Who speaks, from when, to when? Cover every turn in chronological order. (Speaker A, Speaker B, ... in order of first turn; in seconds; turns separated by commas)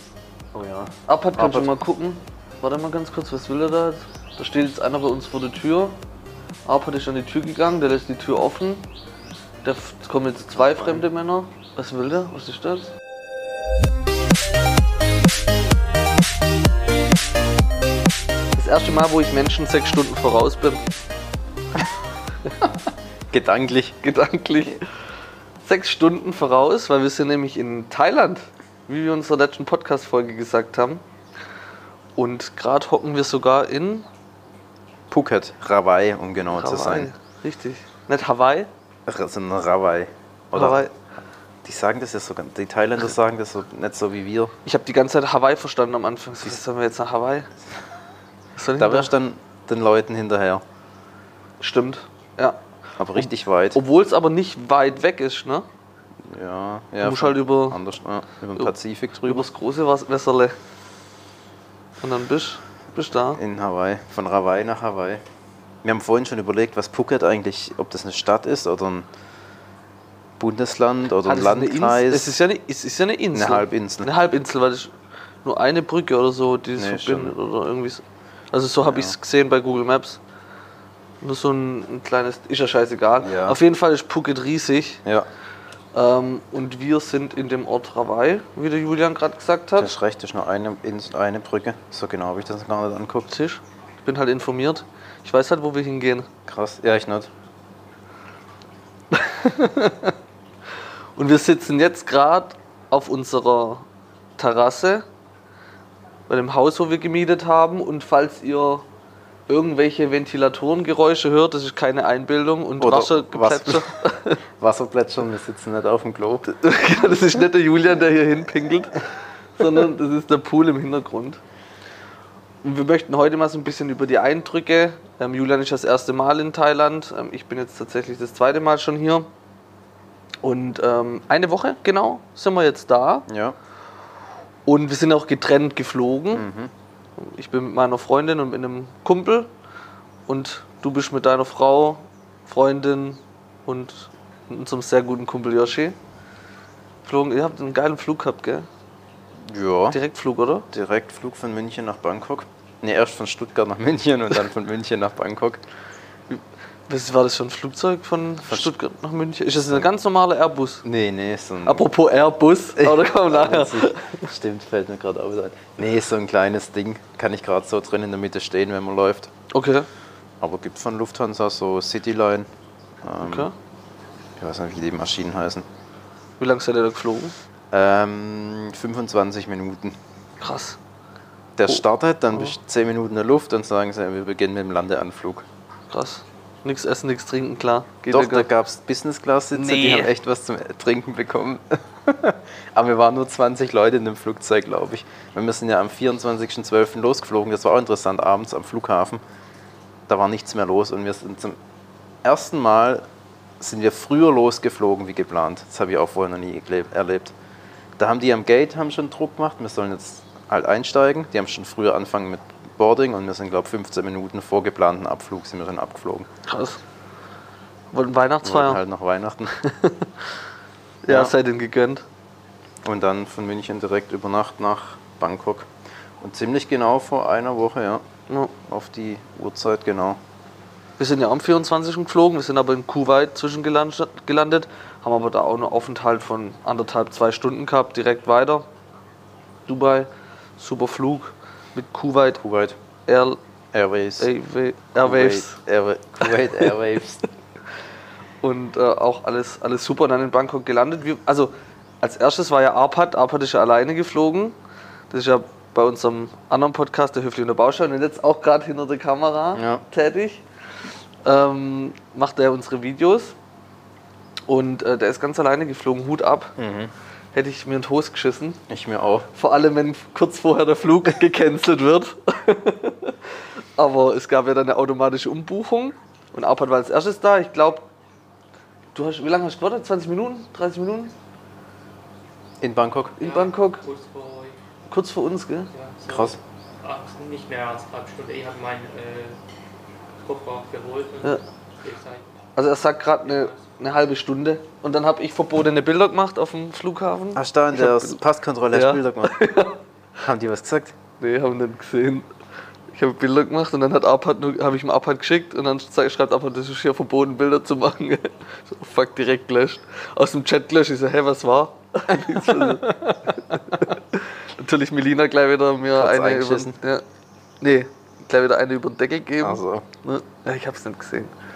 Speaker A: 0.5-1.8, Speaker B: 1.1-6.0, Speaker B: 6.7-8.9, Speaker B: 9.6-12.9, Speaker B: 18.6-20.8, Speaker A: 23.3-24.0, Speaker B: 24.0-24.9, Speaker B: 25.6-31.0, Speaker B: 32.2-34.1, Speaker A: 35.1-37.1, Speaker B: 36.5-38.7, Speaker A: 39.1-40.8, Speaker B: 40.5-40.9, Speaker A: 41.6-44.5, Speaker B: 44.6-47.5, Speaker B: 48.6-49.1, Speaker A: 48.8-50.6, Speaker B: 51.6-52.6, Speaker A: 53.0-53.8, Speaker B: 53.2-55.7, Speaker A: 56.2-59.5, Speaker B: 57.0-57.8, Speaker B: 59.2-60.6, Speaker B: 62.0-63.4, Speaker A: 63.3-65.2, Speaker A: 65.8-69.1, Speaker A: 70.4-72.3, Speaker B: 71.2-74.9, Speaker A: 73.3-74.1, Speaker B: 75.4-80.2, Speaker A: 76.8-77.4, Speaker A: 78.8-79.2, Speaker B: 81.2-85.0, Speaker A: 83.2-83.6, Speaker B: 85.9-90.0, Speaker A: 89.8-93.3, Speaker B: 93.3-96.3, Speaker A: 96.5-97.3, Speaker B: 99.1-100.1, Speaker B: 101.2-103.9, Speaker B: 104.4-105.0, Speaker B: 106.3-108.8, Speaker B: 109.5-114.4, Speaker A: 112.8-114.0, Speaker A: 114.6-116.5, Speaker B: 116.5-119.0, Speaker B: 119.6-121.4, Speaker B: 122.6-129.3, Speaker B: 130.4-133.3, Speaker A: 133.3-133.6, Speaker B: 134.7-136.5, Speaker A: 136.3-136.7, Speaker B: 137.2-139.5, Speaker B: 140.3-146.0, Speaker B: 147.0-148.7, Speaker A: 149.4-150.0, Speaker B: 149.9-150.7, Speaker A: 150.7-155.6, Speaker B: 156.3-160.8, Speaker A: 158.5-158.8, Speaker A: 160.8-161.8, Speaker B: 161.6-164.3, Speaker A: 162.8-169.3, Speaker B: 169.5-169.9, Speaker A: 170.4-172.5, Speaker A: 173.0-173.5, Speaker B: 173.2-173.5, Speaker A: 174.4-175.7, Speaker B: 176.4-177.3, Speaker A: 177.7-180.0, Speaker B: 180.4-180.8, Speaker A: 181.6-185.5, Speaker B: 185.9-188.5, Speaker A: 188.1-199.2, Speaker B: 189.6-190.1, Speaker A: 200.1-201.6, Speaker A: 202.2-203.0, Speaker A: 203.6-207.3, Speaker A: 208.0-216.3, Speaker B: 216.5-216.8, Speaker B: 217.9-218.8, Speaker A: 218.4-219.5, Speaker B: 219.5-220.3, Speaker B: 221.0-222.1, Speaker A: 221.1-221.3, Speaker A: 222.8-225.7, Speaker A: 226.2-228.0, Speaker A: 228.6-230.2, Speaker B: 231.0-238.7, Speaker B: 239.7-242.4, Speaker A: 242.4-242.8, Speaker B: 243.1-243.4, Speaker A: 243.7-244.3, Speaker B: 244.2-245.6, Speaker A: 245.0-247.2, Speaker B: 246.3-246.7, Speaker B: 248.4-254.6, Speaker B: 255.1-260.4, Speaker A: 259.6-259.8, Speaker B: 261.2-263.4, Speaker B: 264.5-266.6, Speaker A: 266.6-266.9, Speaker B: 267.3-268.6, Speaker A: 268.7-269.3, Speaker B: 269.4-273.2, Speaker B: 273.8-277.9, Speaker B: 278.9-281.1, Speaker A: 282.6-283.1, Speaker B: 283.2-283.8, Speaker C: 283.2-284.6, Speaker B: 284.9-285.7, Speaker C: 285.7-289.4, Speaker A: 286.1-286.4, Speaker C: 290.2-292.3, Speaker B: 292.6-298.2, Speaker C: 293.3-293.6, Speaker A: 297.3-299.4, Speaker B: 298.7-299.8, Speaker A: 300.2-301.0, Speaker B: 301.2-302.3, Speaker B: 302.9-317.0, Speaker A: 312.1-313.9, Speaker A: 315.9-316.8, Speaker B: 317.6-321.3, Speaker A: 319.4-319.9